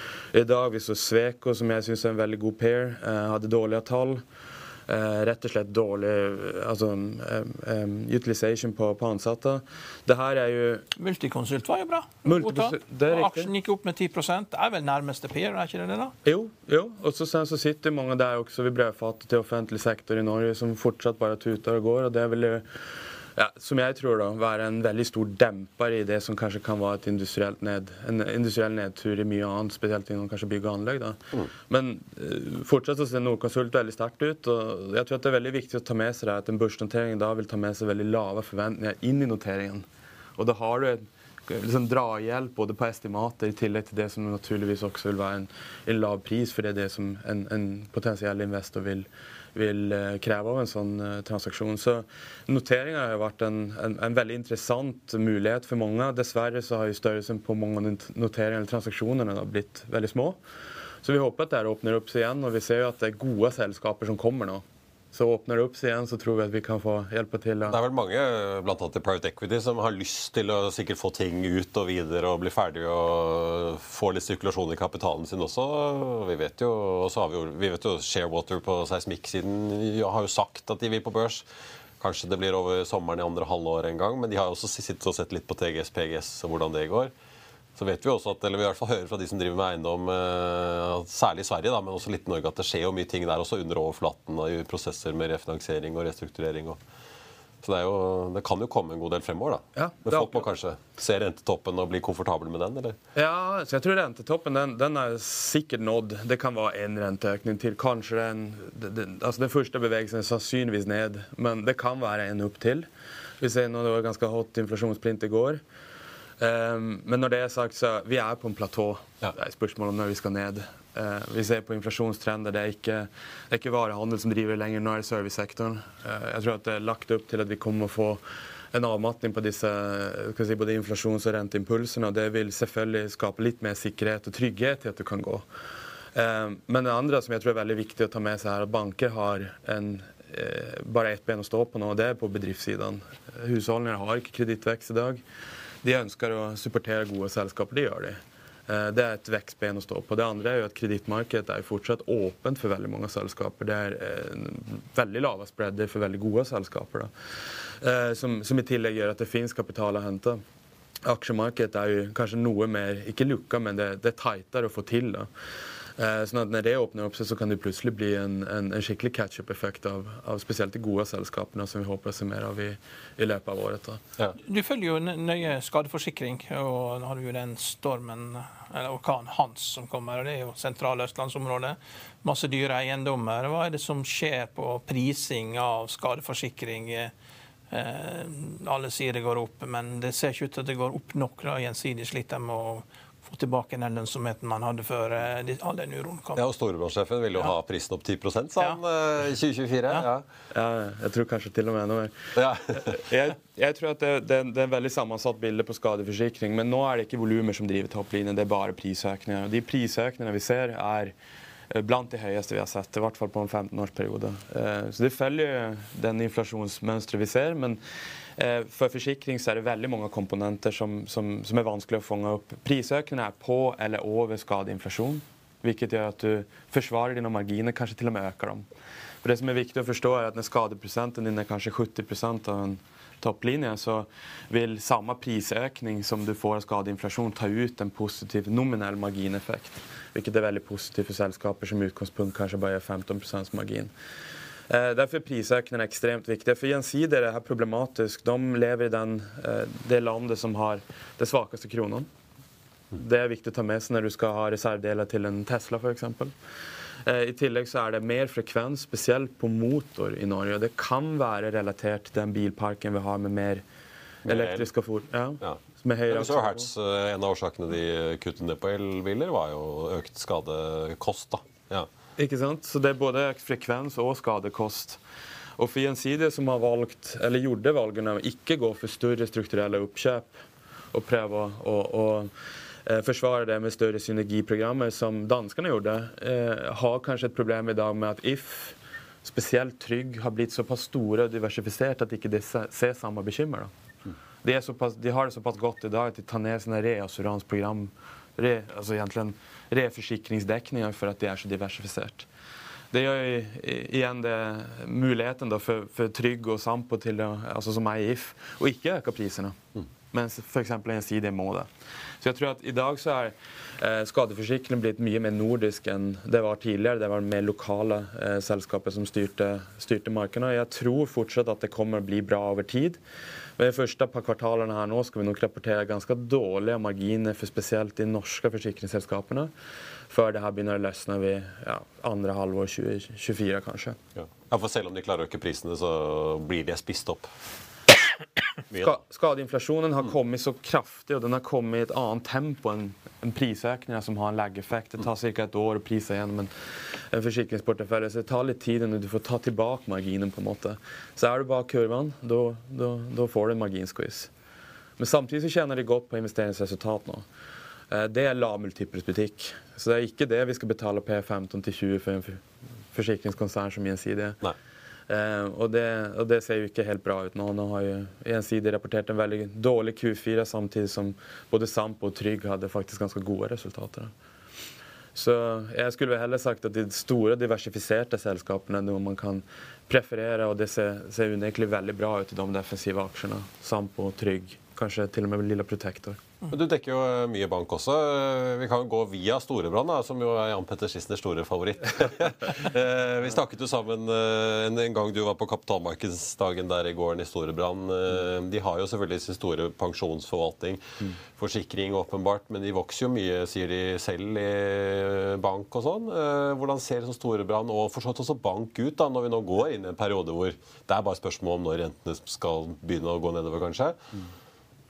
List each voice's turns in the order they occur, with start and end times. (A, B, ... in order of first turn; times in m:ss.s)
0:00.3-0:04.2 A
0:04.9-0:10.8 A
0:11.0-0:16.1 B
0:12.2-0:13.5 A
0:16.2-0:22.6 A
0:23.4-0:39.8 A
0:40.4-1:00.4 A
1:01.0-1:07.8 A
1:07.7-1:21.4 C
1:22.0-1:27.1 C
1:27.8-1:36.8 C
1:37.6-1:43.0 C
1:39.8-1:40.5 A
1:43.1-1:52.9 A
1:53.4-1:55.6 A
1:56.4-2:08.2 A
2:08.7-2:15.4 A
2:16.1-2:25.2 A
2:25.8-2:37.1 A
2:37.8-2:40.4 A
2:41.0-2:45.3 A
2:46.0-2:54.0 A
2:54.4-3:07.1 B
3:07.7-3:16.4 B
3:16.4-3:20.2 C
3:20.5-3:22.2 A
3:22.4-3:23.0 C
3:22.7-3:31.1 A
3:31.7-3:37.8 A
3:38.4-3:48.7 A
3:49.2-4:03.9 A
4:04.7-4:12.1 A
4:12.9-4:16.3 A
4:17.0-4:23.6 A
4:24.2-4:24.7 C
4:24.2-4:26.7 A
4:25.4-4:31.9 C
4:32.2-4:35.0 A
4:35.6-4:40.4 A
4:40.9-4:42.3 A
4:42.8-4:53.7 A
4:54.4-5:02.3 A
5:02.9-5:09.6 A
5:10.1-5:11.7 A
5:12.2-5:23.0 A
5:23.6-5:29.5 A
5:30.1-5:34.0 A
5:34.2-5:37.3 C
5:38.7-5:39.0 C
5:38.8-5:54.3 A
5:55.0-5:57.2 A
5:57.9-6:04.4 A
6:05.1-6:14.1 A
6:15.1-6:26.2 A
6:26.5-6:40.8 C
6:41.3-6:54.0 C